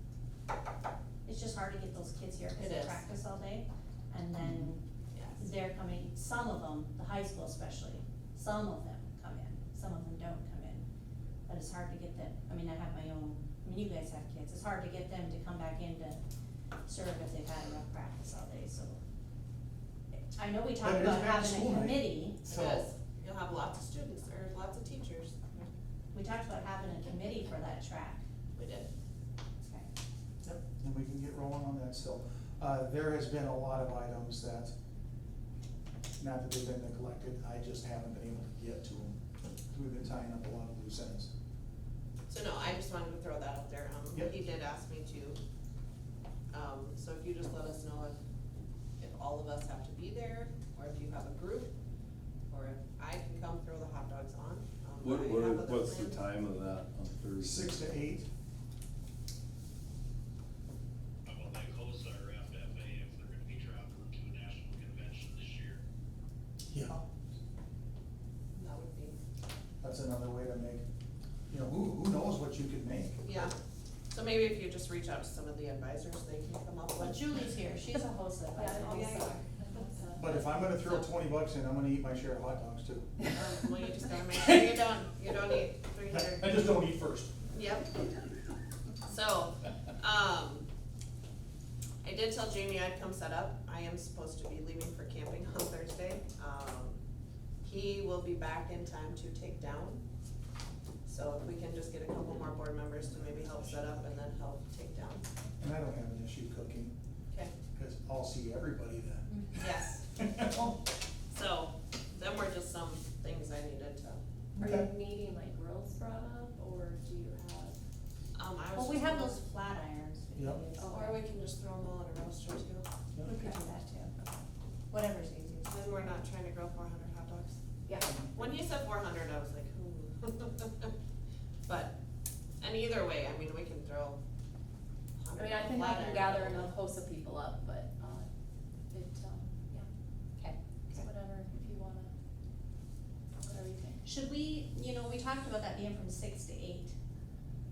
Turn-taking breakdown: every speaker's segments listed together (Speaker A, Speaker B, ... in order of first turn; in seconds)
Speaker A: 1.2-4.8, 5.4-10.9, 11.5-16.2, 16.9-19.0, 20.4-22.4, 26.1-28.2, 29.6-29.9, 77.0-79.4, 118.7-121.2, 123.2-126.0, 144.0-146.9
Speaker B: 2.5-3.0, 5.1-5.4, 22.4-25.7, 28.6-28.9, 42.3-45.4, 46.5-48.2, 49.0-51.7, 52.5-56.2, 68.5-69.2, 73.2-73.5, 74.1-77.2, 83.3-86.6, 87.5-87.9, 89.1-90.7, 92.0-97.0, 97.6-100.0, 101.1-105.3, 109.6-110.0, 111.3-114.2, 118.3-119.4, 120.9-122.9, 125.7-127.6, 128.3-130.9, 131.7-131.9, 132.6-134.2, 135.2-136.7
Speaker C: 4.4-4.7, 20.8-22.9, 30.4-34.7, 36.2-39.2, 39.7-41.3, 57.4-58.3, 66.7-67.0, 69.8-70.8, 71.5-73.3, 80.2-83.2, 86.1-87.3, 103.0-104.3, 105.6-107.0, 107.7-110.8, 114.6-114.9, 120.3-120.6
Speaker D: 55.0-57.7
Speaker E: 61.2-65.8
Speaker F: 78.5-80.6, 114.6-117.8, 120.8-121.2, 127.9-128.2, 135.3-138.3, 138.9-139.9, 140.4-142.1, 143.4-144.0